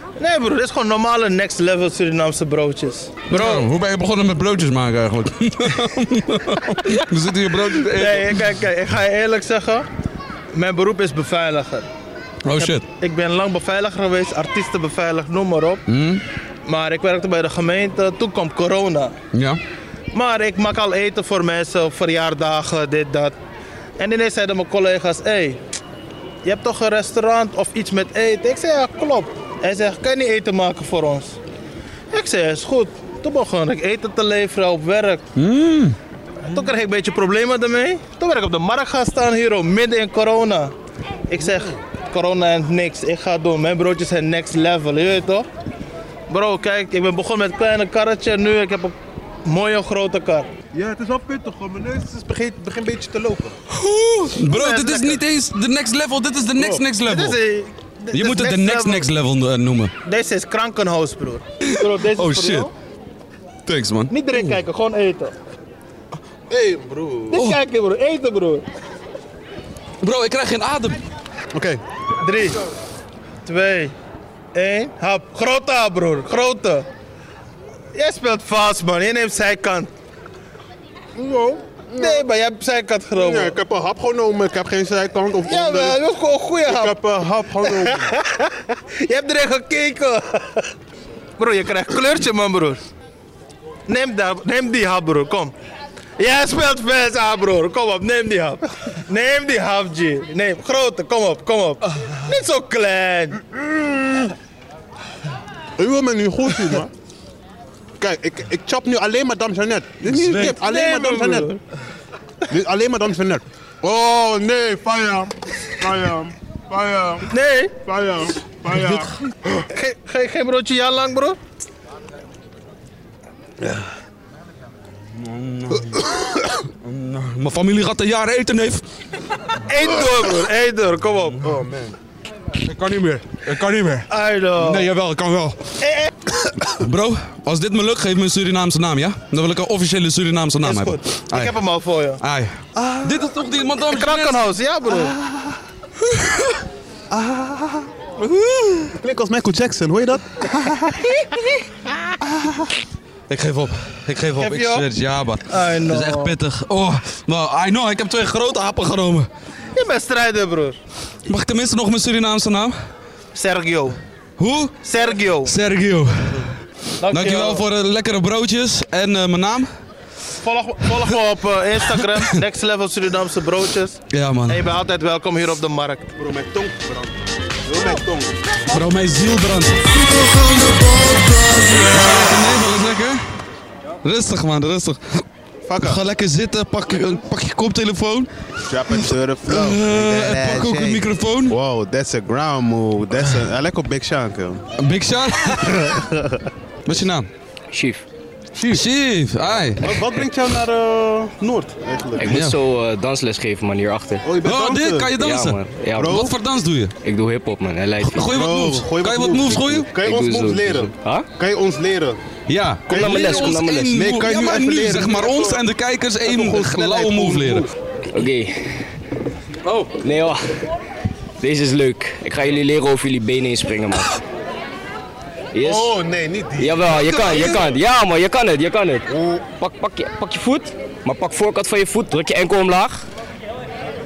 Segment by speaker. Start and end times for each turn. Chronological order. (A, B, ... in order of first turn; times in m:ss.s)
0:00.2-0:03.6 A
0:03.3-0:08.5 B
0:07.9-0:09.9 A
0:10.5-0:11.9 A
0:12.4-0:12.9 B
0:12.6-0:15.8 A
0:15.9-0:16.2 B
0:16.7-0:19.2 A
0:19.3-0:19.6 B
0:20.1-0:23.4 A
0:24.0-0:25.6 A
0:26.4-0:31.4 A
0:32.1-0:35.2 A
0:35.4-0:36.0 B
0:36.4-0:40.7 A
0:41.3-0:45.5 A
0:41.4-0:41.8 C
0:46.3-0:50.5 A
0:50.7-0:53.6 C
0:53.7-0:57.4 B
0:54.4-0:55.2 A
0:56.6-0:56.9 C
0:57.0-0:59.1 A
0:58.1-0:59.9 B
1:00.0-1:02.7 A
1:01.6-1:02.7 B
1:03.7-1:04.1 B
1:04.1-1:05.3 A
1:06.5-1:07.4 C
1:07.3-1:08.6 A
1:07.3-1:07.6 B
1:10.0-1:11.0 B
1:11.5-1:11.8 C
1:12.2-1:12.6 A
1:13.4-1:14.0 A
1:14.5-1:16.9 A
1:17.9-1:19.9 A
1:21.2-1:22.2 C
1:22.0-1:23.6 A
1:23.2-1:26.0 C
1:25.5-1:27.0 A
1:26.6-1:28.1 C
1:27.6-1:30.7 A
1:31.4-1:32.8 A
1:33.9-1:35.5 A
1:36.2-1:43.6 A
1:45.8-1:46.9 C
1:48.0-1:51.5 C
1:50.0-1:51.6 A
1:52.5-1:59.1 C
1:57.3-1:57.8 A
1:58.8-2:01.4 A
2:05.2-2:06.1 B
2:06.8-2:08.8 B
2:09.7-2:11.4 A
2:11.4-2:12.0 C
2:12.6-2:15.6 B
2:14.1-2:14.9 A
2:15.8-2:16.1 A
2:16.6-2:21.6 B
2:20.6-2:22.2 A
2:22.2-2:24.4 B
2:22.8-2:23.3 C
2:23.9-2:25.2 A
2:24.9-2:25.6 C
2:27.1-2:27.9 C
2:28.2-2:28.9 B
2:28.9-2:31.1 C
2:32.2-2:32.7 C
2:33.3-2:39.3 B
2:34.4-2:34.8 A
2:35.5-2:36.4 A
2:39.8-2:40.8 A
2:41.3-2:42.8 B
2:43.3-2:44.0 A
2:44.4-2:44.8 B
2:44.8-2:45.6 A
2:45.4-2:46.5 B
2:47.0-2:47.6 A
2:47.1-2:49.7 B
2:50.4-2:56.1 A
2:54.1-2:54.6 B
2:56.2-2:58.4 C
2:58.7-3:03.2 B
3:04.0-3:05.2 B
3:05.7-3:06.0 C
3:05.8-3:08.3 B
3:08.7-3:14.7 C
3:09.5-3:11.6 B
3:14.8-3:15.9 B
3:15.5-3:16.9 C
3:16.9-3:17.3 B
3:17.7-3:18.1 D
3:18.6-3:18.9 C
3:18.7-3:20.0 B
3:19.5-3:22.4 C
3:22.2-3:24.3 D
3:22.2-3:22.6 B
3:24.2-3:25.2 C
3:24.4-3:26.9 B
3:25.2-3:26.3 D
3:26.0-3:26.3 C
3:27.0-3:28.4 D
3:28.0-3:30.0 B
3:28.3-3:32.2 C
3:30.0-3:31.3 D
3:32.5-3:37.7 B
3:32.9-3:34.0 D
3:32.9-3:35.6 C
3:36.2-3:37.7 C
3:38.1-3:38.9 D
3:39.7-3:39.9 B
3:40.0-3:40.6 D
3:41.4-3:44.2 D
3:45.5-3:45.9 D
3:45.6-3:47.4 C
3:46.6-3:53.0 D
3:47.3-3:47.6 B
3:49.1-3:49.5 C